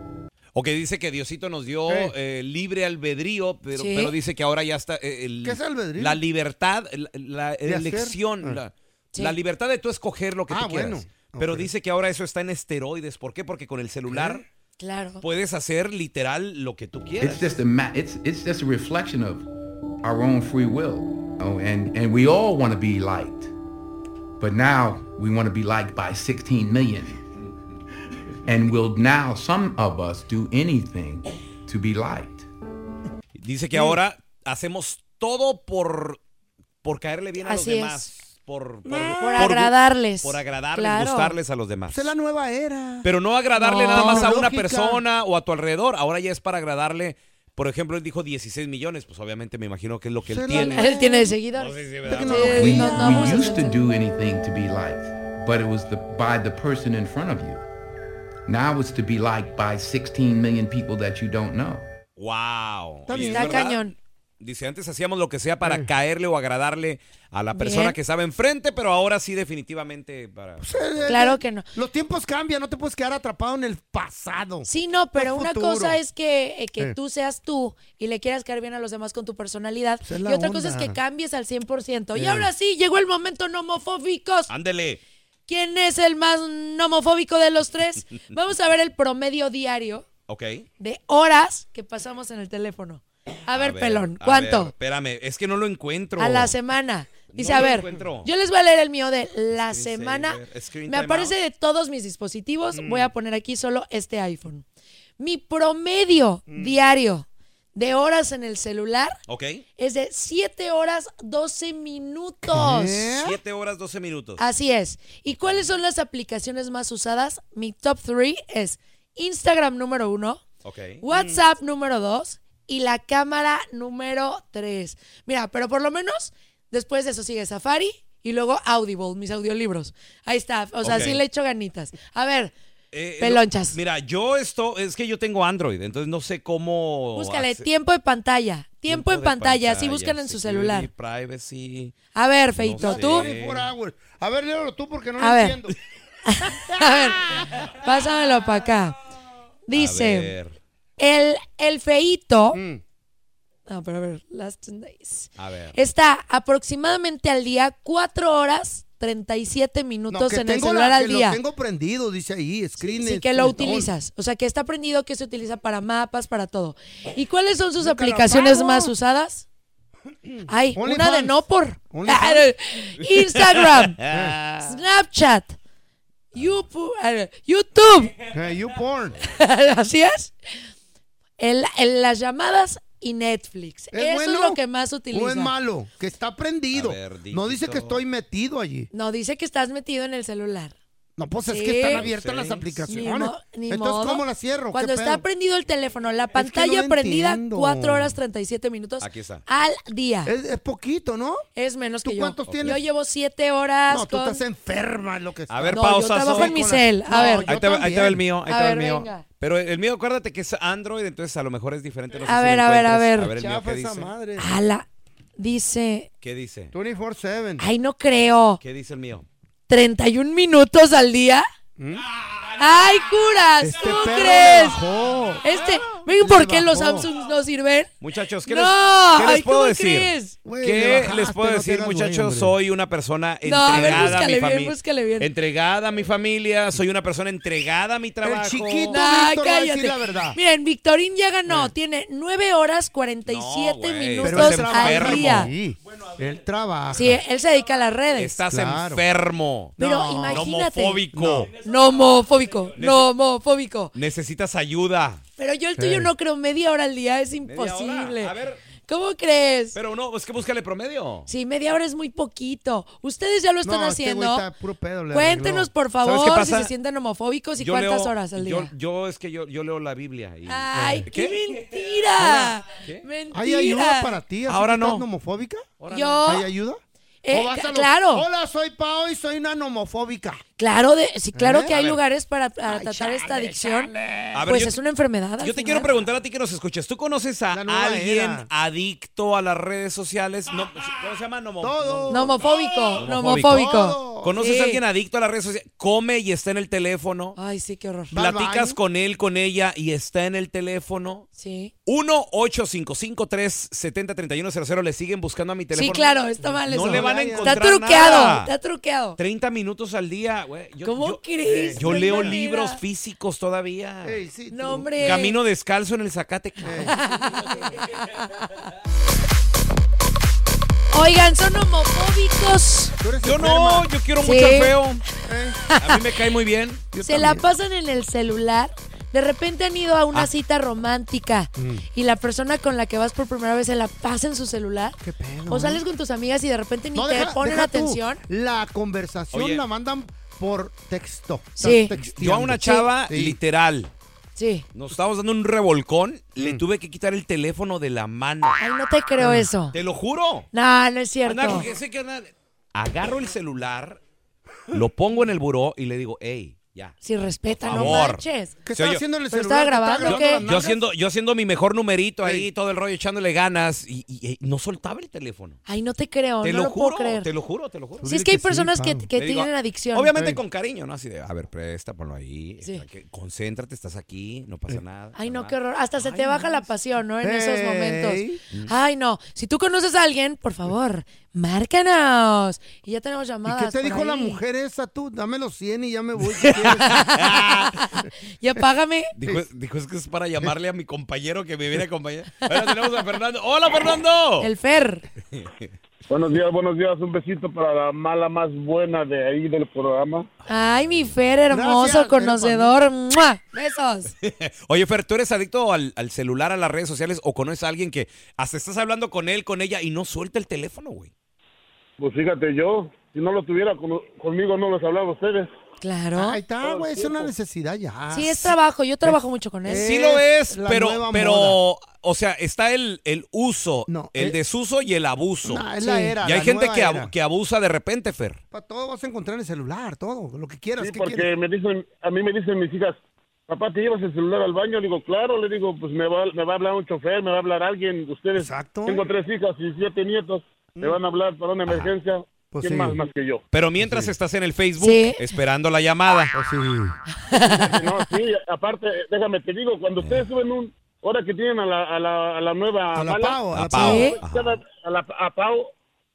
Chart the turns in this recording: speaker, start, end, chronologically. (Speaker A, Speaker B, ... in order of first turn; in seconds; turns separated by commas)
Speaker A: 0.5-14.4, Speaker B: 1.9-2.1, Speaker C: 3.8-4.1, Speaker B: 5.4-6.2, Speaker B: 7.6-8.6, Speaker B: 10.5-11.7, Speaker B: 14.1-14.4, Speaker C: 14.8-15.2, Speaker A: 15.2-17.6, Speaker D: 17.2-19.5, Speaker D: 20.0-23.5, Speaker D: 24.4-27.2, Speaker D: 28.4-32.5, Speaker A: 33.4-36.2, Speaker B: 33.7-34.0, Speaker A: 36.8-42.1, Speaker C: 37.4-38.1, Speaker B: 38.9-39.5, Speaker C: 39.2-41.4, Speaker B: 41.9-43.1, Speaker A: 43.0-50.9, Speaker C: 43.6-44.3, Speaker B: 43.8-45.0, Speaker B: 50.2-51.3, Speaker C: 50.5-53.8, Speaker A: 51.6-53.1, Speaker B: 52.0-53.1, Speaker D: 52.6-57.6, Speaker D: 58.5-61.8, Speaker A: 62.2-63.9, Speaker B: 63.1-63.7, Speaker C: 63.1-63.9, Speaker A: 64.4-71.1, Speaker B: 65.6-65.9, Speaker C: 67.5-68.0, Speaker B: 70.6-76.0, Speaker C: 71.1-71.7, Speaker C: 74.7-84.5, Speaker B: 80.0-81.0, Speaker B: 82.1-82.5, Speaker A: 84.5-85.0, Speaker C: 85.5-90.0, Speaker A: 90.3-90.7, Speaker C: 90.8-94.7, Speaker A: 93.5-96.5, Speaker C: 96.2-104.6, Speaker A: 97.3-98.3, Speaker A: 99.5-101.3, Speaker B: 102.7-103.1, Speaker C: 105.2-109.1, Speaker B: 106.5-106.8, Speaker A: 109.3-109.6, Speaker C: 109.8-113.1, Speaker B: 112.5-113.4, Speaker A: 113.2-114.4, Speaker C: 114.4-120.4, Speaker A: 115.3-115.6, Speaker A: 120.6-121.0, Speaker C: 121.0-132.5, Speaker B: 121.1-121.4, Speaker A: 130.8-131.2, Speaker A: 132.9-137.7, Speaker C: 133.2-133.8, Speaker C: 137.1-140.9, Speaker A: 138.9-141.9, Speaker C: 142.1-143.3, Speaker A: 142.6-143.7, Speaker B: 142.8-145.8, Speaker C: 145.2-145.6, Speaker C: 146.3-148.9, Speaker C: 149.7-150.3, Speaker A: 149.7-150.6, Speaker C: 151.0-152.6, Speaker B: 152.5-152.8, Speaker C: 153.7-161.4, Speaker A: 155.4-155.8, Speaker B: 160.1-163.9, Speaker C: 162.8-169.4, Speaker B: 167.8-168.9, Speaker B: 170.1-172.5, Speaker C: 170.5-174.0, Speaker A: 173.0-174.7, Speaker B: 174.1-174.4, Speaker C: 174.6-175.6, Speaker C: 176.3-178.1, Speaker B: 178.3-179.2, Speaker C: 179.2-180.3, Speaker C: 181.4-185.5, Speaker B: 183.9-184.6, Speaker B: 185.1-188.9, Speaker A: 186.7-188.0, Speaker C: 188.9-190.7, Speaker B: 191.2-195.2, Speaker C: 191.4-192.0, Speaker A: 191.9-192.7, Speaker C: 192.9-200.3, Speaker B: 196.3-198.2, Speaker A: 199.0-199.4, Speaker B: 200.2-201.4, Speaker C: 201.6-204.4, Speaker B: 202.0-202.8, Speaker A: 202.4-202.8, Speaker B: 203.9-208.2, Speaker A: 205.5-214.1, Speaker C: 205.7-207.5, Speaker C: 208.5-209.2, Speaker C: 212.2-213.3, Speaker B: 213.3-214.5, Speaker C: 214.4-214.8, Speaker C: 215.4-216.1, Speaker A: 216.2-216.7, Speaker B: 216.7-217.7, Speaker C: 217.6-218.6, Speaker A: 218.6-219.3, Speaker C: 219.7-221.4, Speaker B: 221.8-222.0, Speaker C: 222.6-224.8, Speaker B: 223.6-227.1, Speaker C: 225.4-227.9, Speaker A: 228.0-239.0, Speaker C: 228.4-230.3, Speaker B: 230.4-232.5, Speaker C: 233.4-235.3, Speaker B: 233.7-234.2, Speaker B: 238.2-240.4, Speaker C: 238.9-245.5, Speaker A: 243.3-245.5, Speaker B: 244.2-247.2, Speaker C: 246.9-248.3, Speaker A: 248.2-249.8, Speaker B: 248.5-249.1, Speaker B: 249.8-250.5, Speaker C: 249.8-251.0, Speaker A: 250.3-251.5, Speaker B: 251.1-251.5, Speaker C: 251.5-253.9, Speaker A: 252.7-253.1, Speaker A: 253.9-255.2, Speaker C: 255.4-258.3, Speaker B: 255.8-256.1, Speaker A: 257.4-258.6, Speaker C: 258.9-259.8, Speaker A: 259.7-261.3, Speaker C: 261.3-264.5, Speaker B: 263.6-265.7, Speaker C: 265.1-268.7, Speaker A: 266.0-266.7, Speaker A: 267.6-271.6, Speaker C: 270.5-274.1, Speaker B: 270.7-271.1, Speaker A: 272.2-273.0, Speaker B: 273.3-275.7, Speaker A: 274.4-275.0, Speaker A: 275.8-276.2, Speaker C: 275.9-276.5, Speaker B: 276.2-280.4, Speaker C: 277.2-278.2, Speaker C: 280.6-283.9, Speaker B: 281.3-281.7, Speaker A: 281.7-282.0, Speaker B: 282.6-284.5, Speaker A: 284.3-284.8, Speaker C: 284.5-285.9, Speaker A: 285.4-292.4, Speaker B: 287.5-288.5, Speaker B: 291.6-294.3, Speaker C: 292.1-294.8, Speaker A: 293.0-293.7, Speaker A: 294.2-297.4, Speaker C: 297.4-298.1, Speaker B: 298.1-298.8, Speaker A: 298.1-301.3, Speaker C: 301.4-301.7, Speaker A: 301.9-308.5, Speaker C: 305.7-309.2, Speaker B: 306.6-308.2, Speaker A: 309.2-314.2, Speaker C: 310.8-312.8, Speaker B: 311.5-312.3, Speaker B: 314.0-315.1, Speaker C: 314.5-315.4, Speaker A: 315.0-317.0, Speaker C: 316.6-317.9, Speaker B: 316.6-316.9, Speaker C: 320.9-322.9, Speaker B: 323.0-323.9, Speaker A: 323.2-325.0, Speaker C: 324.2-324.8, Speaker B: 325.3-325.6, Speaker C: 325.7-326.0, Speaker A: 325.8-326.9, Speaker B: 326.9-327.5, Speaker C: 327.0-338.2, Speaker B: 331.6-331.8, Speaker B: 335.0-335.8, Speaker B: 336.9-343.4, Speaker A: 339.3-339.6, Speaker C: 341.6-341.9, Speaker A: 342.0-343.9, Speaker C: 342.6-342.9, Speaker C: 344.4-344.6, Speaker A: 344.7-348.6, Speaker B: 346.4-346.6, Speaker C: 348.6-349.8, Speaker B: 349.2-349.5, Speaker A: 349.7-350.5, Speaker C: 350.5-351.6, Speaker A: 351.2-354.0, Speaker A: 354.7-357.0, Speaker C: 357.0-358.6, Speaker A: 357.5-359.0, Speaker B: 357.7-358.0, Speaker B: 358.6-360.8, Speaker C: 359.3-360.4, Speaker A: 360.0-365.6, Speaker C: 365.6-367.3, Speaker A: 366.4-368.1, Speaker B: 368.0-369.1, Speaker C: 368.0-370.1, Speaker A: 369.1-376.7, Speaker B: 370.1-370.4, Speaker C: 375.1-384.4, Speaker B: 377.2-378.4, Speaker B: 383.4-387.2, Speaker A: 386.3-387.8, Speaker C: 386.8-389.1, Speaker A: 389.1-394.5, Speaker C: 394.4-395.0, Speaker A: 395.3-395.7, Speaker E: 396.1-400.3, Speaker C: 400.5-404.1, Speaker B: 401.5-402.8, Speaker A: 404.2-411.1, Speaker E: 412.0-415.5, Speaker C: 415.8-416.4, Speaker B: 416.1-421.6, Speaker E: 416.6-417.3, Speaker C: 418.1-419.9, Speaker A: 419.8-425.6, Speaker B: 423.9-424.4, Speaker B: 425.4-427.1, Speaker C: 425.8-426.1, Speaker A: 426.2-428.4, Speaker B: 428.5-431.3, Speaker E: 430.8-443.4, Speaker B: 438.3-439.0, Speaker B: 441.7-441.9, Speaker B: 442.5-443.0, Speaker A: 443.5-446.3, Speaker B: 443.8-444.1, Speaker C: 444.8-445.2, Speaker B: 446.3-447.0, Speaker C: 447.1-448.0, Speaker E: 447.4-455.7, Speaker A: 450.0-450.2, Speaker B: 452.9-454.2, Speaker A: 453.5-454.6, Speaker C: 453.8-454.2